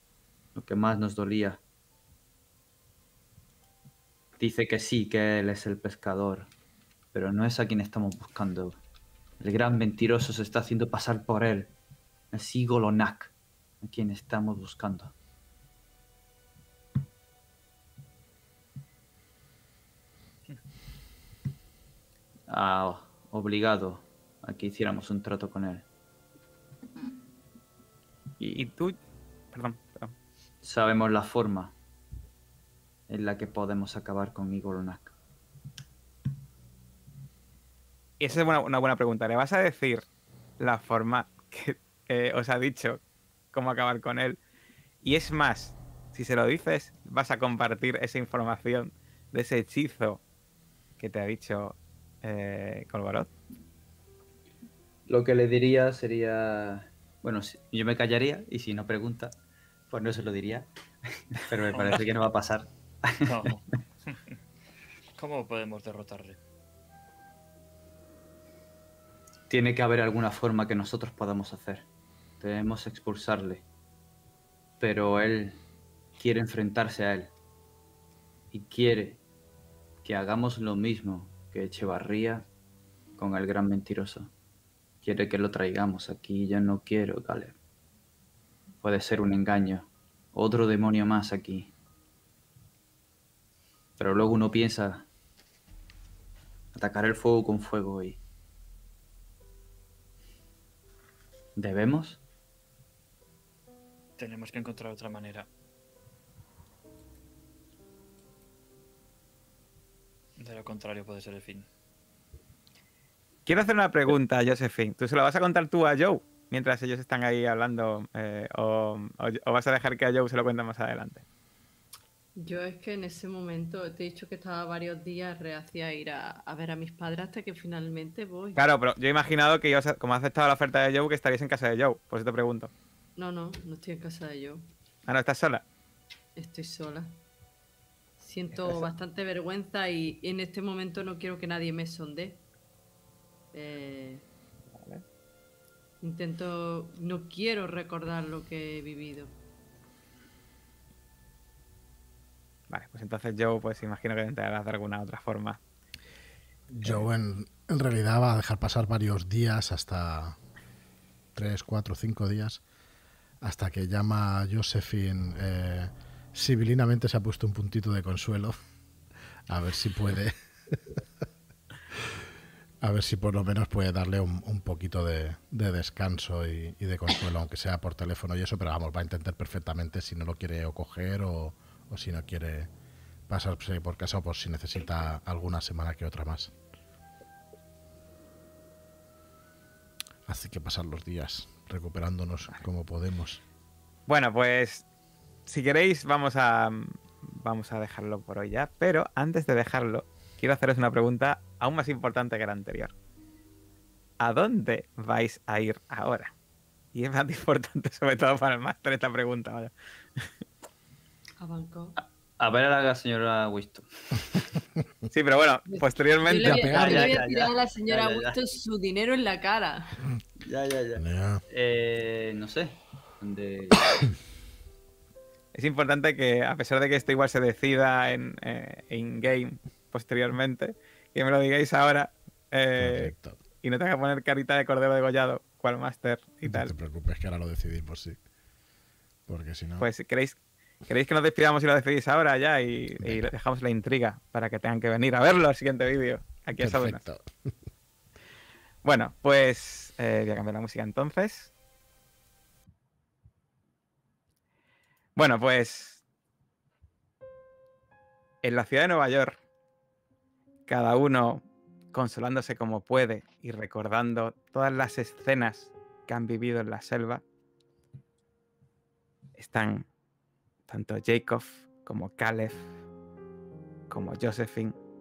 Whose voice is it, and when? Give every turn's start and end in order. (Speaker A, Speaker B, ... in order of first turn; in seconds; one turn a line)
Speaker A: 0.5-1.6
Speaker A: 4.4-6.5
Speaker A: 7.1-8.8
Speaker A: 9.4-11.7
Speaker A: 12.3-15.1
Speaker A: 22.5-25.9
Speaker B: 28.4-28.9
Speaker B: 29.5-30.1
Speaker A: 30.6-31.7
Speaker A: 33.1-35.1
Speaker B: 38.2-40.0
Speaker B: 40.6-43.0
Speaker B: 43.5-44.4
Speaker B: 45.0-50.2
Speaker B: 51.0-53.3
Speaker A: 55.1-59.4
Speaker A: 59.9-63.3
Speaker C: 61.7-62.1
Speaker C: 63.2-64.4
Speaker C: 65.2-66.4
Speaker A: 69.5-71.8
Speaker A: 72.4-73.6
Speaker A: 74.8-75.6
Speaker A: 76.2-77.3
Speaker A: 78.5-79.2
Speaker A: 80.0-82.5
Speaker A: 83.2-84.3
Speaker A: 85.0-87.5
Speaker A: 88.8-91.7
Speaker A: 94.0-95.1
Speaker A: 96.7-98.2
Speaker A: 101.5-102.2
Speaker C: 104.2-105.5
Speaker C: 110.4-111.7
Speaker B: 113.5-121.2
Speaker D: 122.3-128.6
Speaker B: 128.6-132.7
Speaker D: 133.2-134.6
Speaker B: 135.1-135.6
Speaker D: 136.3-137.2
Speaker D: 138.2-142.4
Speaker B: 138.5-138.8
Speaker D: 143.5-144.3
Speaker B: 144.7-145.0
Speaker D: 146.0-149.3
Speaker B: 152.7-155.6
Speaker E: 156.7-160.4
Speaker E: 161.3-162.6
Speaker E: 163.4-168.5
Speaker E: 169.5-171.0
Speaker E: 172.8-182.7
Speaker E: 183.3-186.5
Speaker E: 190.2-193.4
Speaker B: 194.1-194.8
Speaker B: 195.5-202.9
Speaker B: 204.2-206.3
Speaker B: 206.9-210.3
Speaker D: 211.4-212.0
Speaker A: 212.0-214.3
Speaker B: 215.1-216.9
Speaker D: 215.7-220.0
Speaker E: 216.4-217.1
Speaker A: 216.5-218.3
Speaker A: 220.4-224.0
Speaker E: 221.0-221.4
Speaker B: 225.5-236.7
Speaker E: 232.8-233.4
Speaker E: 236.4-238.2
Speaker E: 239.3-239.9
Speaker B: 239.8-247.0
Speaker E: 243.0-243.3
Speaker E: 246.6-247.5
Speaker B: 248.8-251.5
Speaker B: 255.2-256.0
Speaker B: 258.4-259.4
Speaker B: 260.7-267.2
Speaker B: 269.4-269.9
Speaker B: 270.7-272.7
Speaker B: 273.9-274.8